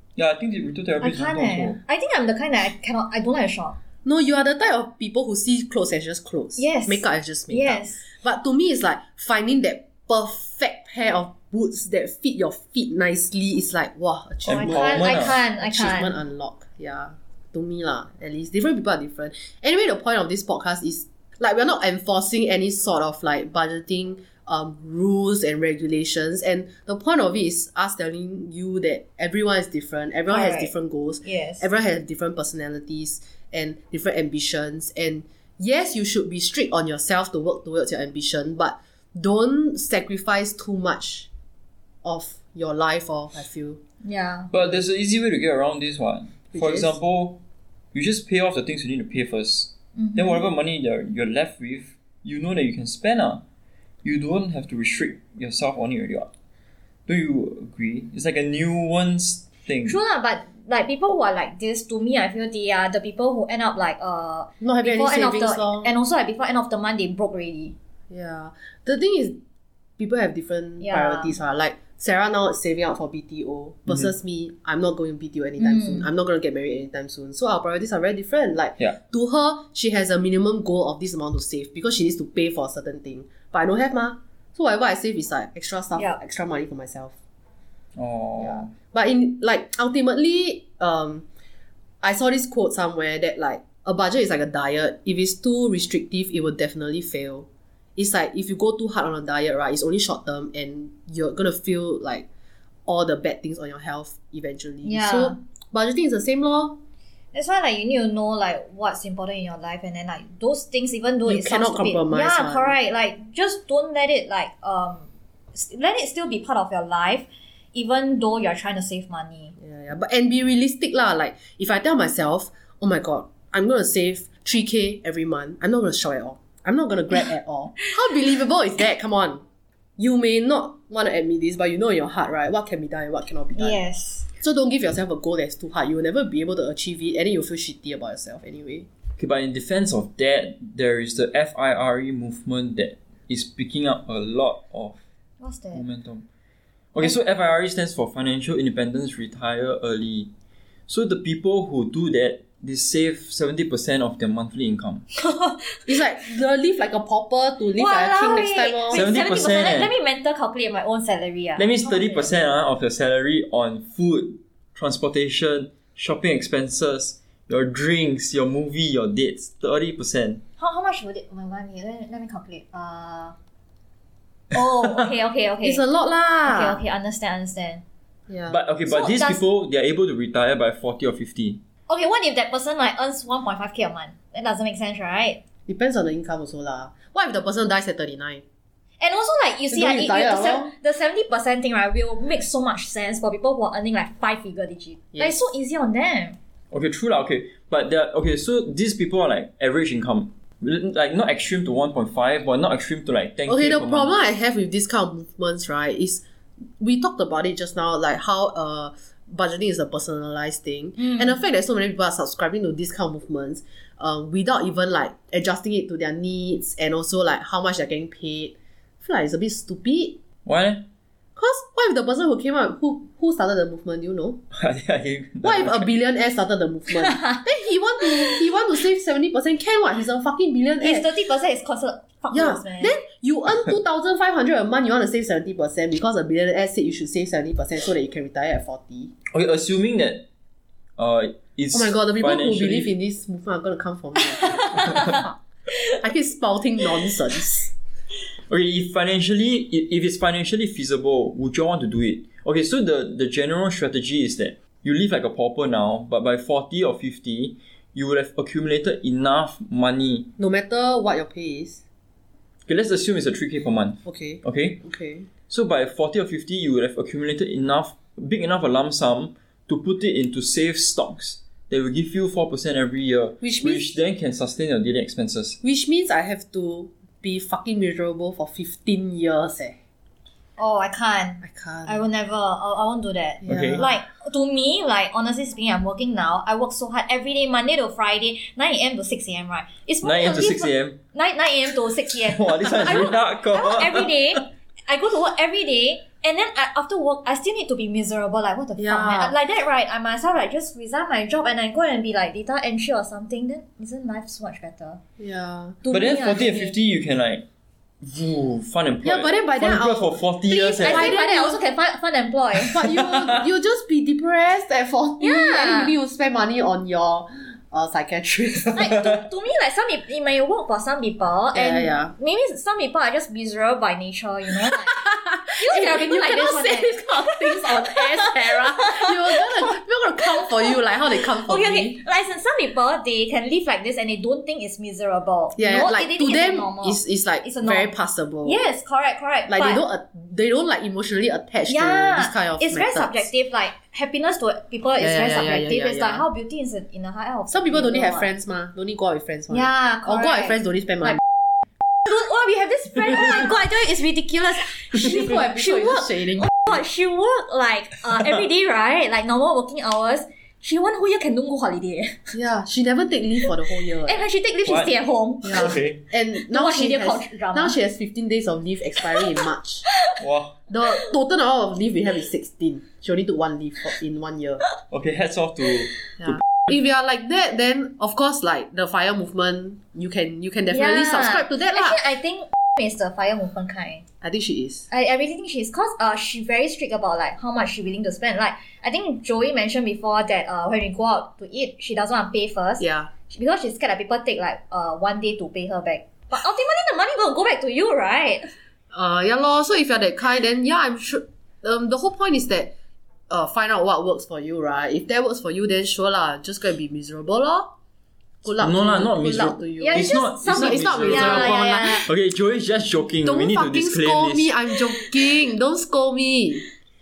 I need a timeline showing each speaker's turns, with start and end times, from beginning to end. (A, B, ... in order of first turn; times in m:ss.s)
0:00.2-0:01.8 A
0:01.0-0:03.8 B
0:04.0-0:41.3 C
0:06.6-0:08.0 B
0:14.5-0:15.4 A
0:14.5-0:16.2 B
0:30.3-0:30.7 B
0:31.2-0:31.7 B
0:42.0-0:43.8 C
0:44.0-0:44.5 B
0:44.5-0:47.4 A
0:46.5-0:47.0 C
0:47.9-0:53.4 A
0:50.0-0:50.5 B
0:54.0-0:56.3 A
0:57.1-1:00.0 A
0:59.9-1:07.8 B
1:04.6-1:05.9 C
1:08.1-1:09.4 C
1:10.0-1:27.2 C
1:10.8-1:11.4 B
1:15.6-1:16.1 B
1:28.0-1:28.7 A
1:28.4-1:31.3 C
1:32.0-1:42.3 C
1:42.9-1:46.8 C
1:44.8-1:45.4 B
1:47.3-1:59.6 B
1:51.3-1:52.8 C
1:59.6-2:09.4 C
2:10.0-2:13.8 C
2:13.6-2:14.3 B
2:14.4-2:18.9 C
2:19.2-2:25.0 A
2:25.4-2:25.8 B
2:25.7-2:26.3 A
2:26.9-2:30.3 A
2:30.9-2:35.1 A
2:35.2-2:36.0 B
2:35.9-2:39.1 C
2:37.8-2:42.3 B
2:38.9-2:39.9 A
2:41.6-2:50.4 A
2:50.6-2:53.4 B
2:54.5-2:55.8 B
2:55.6-2:56.8 C
2:56.4-2:57.8 B
2:58.3-2:58.6 C
2:58.5-3:01.6 A
2:58.9-2:59.4 B
3:01.9-3:05.4 B
3:05.7-3:08.4 C
3:09.0-3:16.4 B
3:09.7-3:10.7 C
3:15.1-3:15.4 C
3:16.7-3:24.1 A
3:23.5-3:26.2 C
3:26.8-3:40.2 C
3:31.0-3:31.3 B
3:40.5-3:40.9 A
3:41.4-3:44.4 C
3:44.5-3:45.9 A
3:45.4-3:51.1 C
3:47.0-3:47.4 B
3:50.8-3:53.0 B
3:52.3-3:59.1 C
3:59.3-4:00.3 A
4:01.0-4:02.9 A
4:01.7-4:05.3 C
4:04.4-4:05.2 B
4:06.0-4:07.7 C
4:08.5-4:20.3 A
4:20.4-4:21.8 C
4:22.7-4:24.8 A
4:24.0-4:25.3 C
4:25.5-4:35.6 A
4:33.4-4:34.0 C
4:35.6-4:39.8 C
4:40.6-5:05.0 B
4:41.4-4:42.0 C
4:43.4-4:44.0 C
4:43.5-4:43.9 A
4:50.0-4:51.0 A
4:52.2-4:54.4 A
4:58.8-4:59.3 C
5:05.2-5:05.8 C
5:05.8-5:06.8 B
5:05.9-5:07.5 A
5:08.0-5:11.1 A
5:09.0-5:11.7 C
5:10.5-5:12.9 B
5:12.6-5:19.0 C
5:13.1-5:13.4 A
5:15.2-5:15.9 B
5:18.7-5:29.4 B
5:21.5-5:22.1 C
5:24.8-5:32.0 C
5:30.2-5:37.9 B
5:35.6-5:38.6 C
5:38.4-5:39.8 B
5:39.5-5:43.3 C
5:41.7-5:48.3 B
5:45.0-5:46.2 C
5:47.5-5:51.2 C
5:49.5-5:51.2 B
5:52.1-6:02.4 B
5:54.9-5:56.6 C
6:02.3-6:04.2 C
6:03.8-6:05.8 B
6:04.6-6:04.9 A
6:05.4-6:09.9 C
6:05.4-6:06.0 A
6:06.4-6:07.8 B
6:09.9-6:10.2 B
6:10.2-6:10.6 A
6:10.7-6:14.6 C
6:14.9-6:16.3 A
6:16.2-6:22.0 C
6:20.7-6:24.0 B
6:24.2-6:24.9 C
6:24.9-6:38.5 B
6:32.8-6:33.1 C
6:38.9-6:42.7 C
6:43.3-6:47.7 C
6:48.4-6:52.1 C
6:48.6-6:54.5 A
6:49.8-6:52.1 B
6:53.2-6:56.6 C